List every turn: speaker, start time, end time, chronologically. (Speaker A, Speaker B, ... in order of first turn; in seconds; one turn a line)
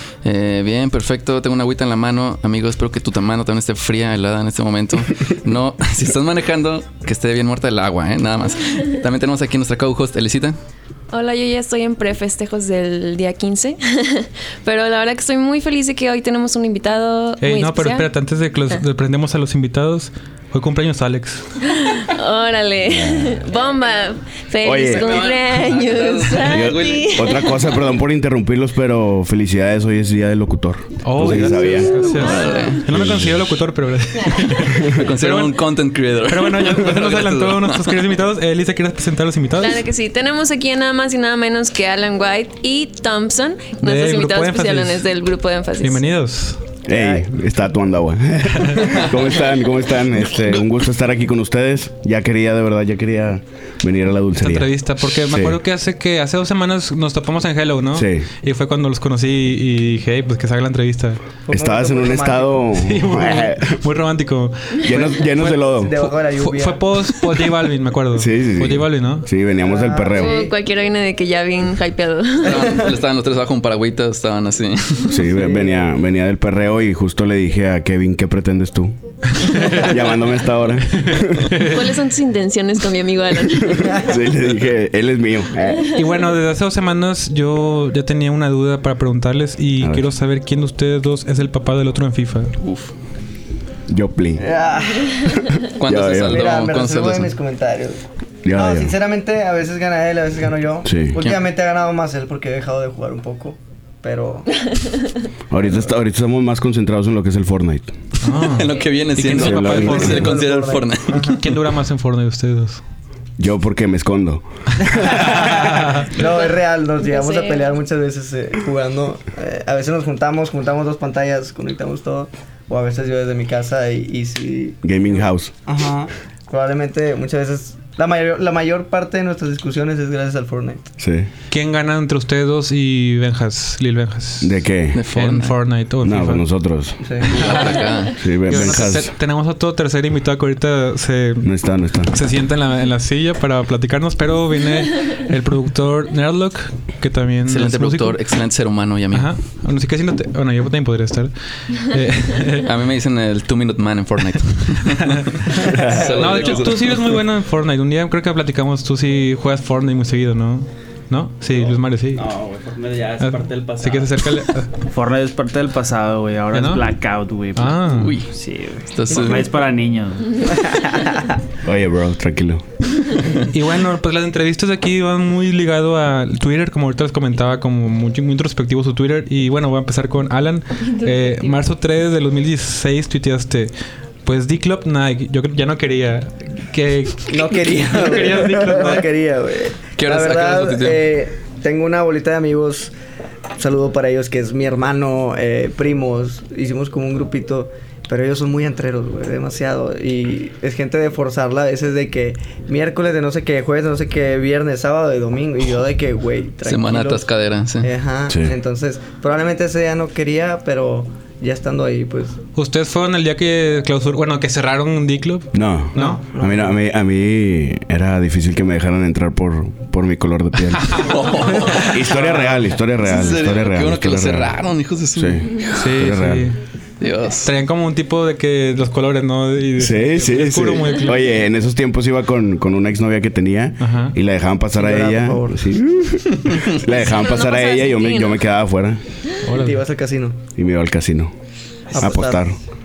Speaker A: 0.2-10.6
Speaker B: 11.1-18.1
Speaker C: 17.4-21.4
Speaker B: 21.6-27.6
Speaker D: 22.9-23.4
Speaker D: 24.6-25.3
Speaker A: 24.8-27.4
Speaker D: 26.4-32.0
Speaker C: 31.0-35.6
Speaker A: 32.0-32.8
Speaker B: 32.0-32.8
Speaker D: 32.9-33.6
Speaker A: 34.6-38.1
Speaker C: 36.3-39.8
Speaker B: 39.6-46.0
Speaker C: 43.8-45.0
Speaker C: 45.8-46.6
Speaker D: 46.9-55.6
Speaker E: 46.9-47.4
Speaker C: 48.6-49.0
Speaker C: 54.4-61.2
Speaker D: 57.9-58.3
Speaker E: 61.5-62.7
Speaker D: 61.5-63.8
Speaker C: 62.8-69.3
Speaker D: 64.8-65.9
Speaker E: 65.4-66.8
Speaker D: 68.2-70.5
Speaker E: 69.6-70.5
Speaker B: 70.1-72.8
Speaker A: 72.4-75.2
Speaker D: 75.1-78.9
Speaker E: 75.2-75.8
Speaker C: 79.4-79.9
Speaker D: 79.5-81.5
Speaker C: 81.0-81.8
Speaker B: 81.6-84.1
Speaker D: 83.6-85.9
Speaker C: 85.9-92.5
Speaker A: 92.6-92.9
Speaker D: 93.9-94.5
Speaker E: 94.4-95.5
Speaker D: 95.8-96.6
Speaker A: 95.8-97.3
Speaker E: 96.2-98.0
Speaker D: 98.4-98.9
Speaker E: 98.5-104.5
Speaker D: 100.8-101.2
Speaker D: 105.5-107.9
Speaker C: 108.2-110.3
Speaker A: 108.3-111.4
Speaker D: 109.2-110.3
Speaker E: 109.7-111.4
Speaker C: 111.3-112.8
Speaker D: 113.4-115.4
Speaker E: 114.8-130.8
Speaker C: 115.5-116.1
Speaker B: 116.2-117.7
Speaker D: 124.8-125.5
Speaker D: 131.0-131.3
Speaker C: 131.5-136.4
Speaker D: 134.4-135.0
Speaker A: 134.9-135.6
Speaker D: 136.0-137.4
Speaker E: 137.0-137.3
Speaker A: 137.3-138.8
Speaker C: 137.3-137.6
Speaker D: 138.2-139.1
Speaker C: 138.4-141.5
Speaker D: 141.4-142.1
Speaker C: 142.1-148.2
Speaker A: 147.5-149.3
Speaker C: 149.1-152.7
Speaker A: 152.6-157.2
Speaker C: 155.0-162.2
Speaker D: 155.7-156.1
Speaker F: 155.8-156.8
Speaker F: 161.5-170.5
Speaker C: 163.2-164.7
Speaker C: 166.5-166.9
Speaker C: 167.5-168.2
Speaker A: 167.9-168.3
Speaker A: 168.9-169.5
Speaker D: 171.6-172.6
Speaker C: 173.5-183.7
Speaker C: 184.2-189.1
Speaker E: 187.3-192.9
Speaker A: 190.0-191.0
Speaker E: 193.6-207.3
Speaker A: 206.6-207.9
Speaker E: 207.8-212.4
Speaker D: 208.3-208.6
Speaker C: 212.5-216.2
Speaker D: 215.5-224.6
Speaker E: 215.9-216.8
Speaker A: 220.9-222.1
Speaker C: 221.8-222.7
Speaker A: 223.0-225.7
Speaker D: 225.1-226.5
Speaker C: 225.7-226.6
Speaker A: 227.0-227.5
Speaker C: 227.4-231.4
Speaker D: 229.8-239.0
Speaker C: 233.8-234.2
Speaker E: 234.7-235.7
Speaker B: 236.9-238.4
Speaker C: 239.4-239.8
Speaker E: 239.5-240.4
Speaker D: 240.6-241.3
Speaker E: 241.9-242.4
Speaker D: 242.0-242.6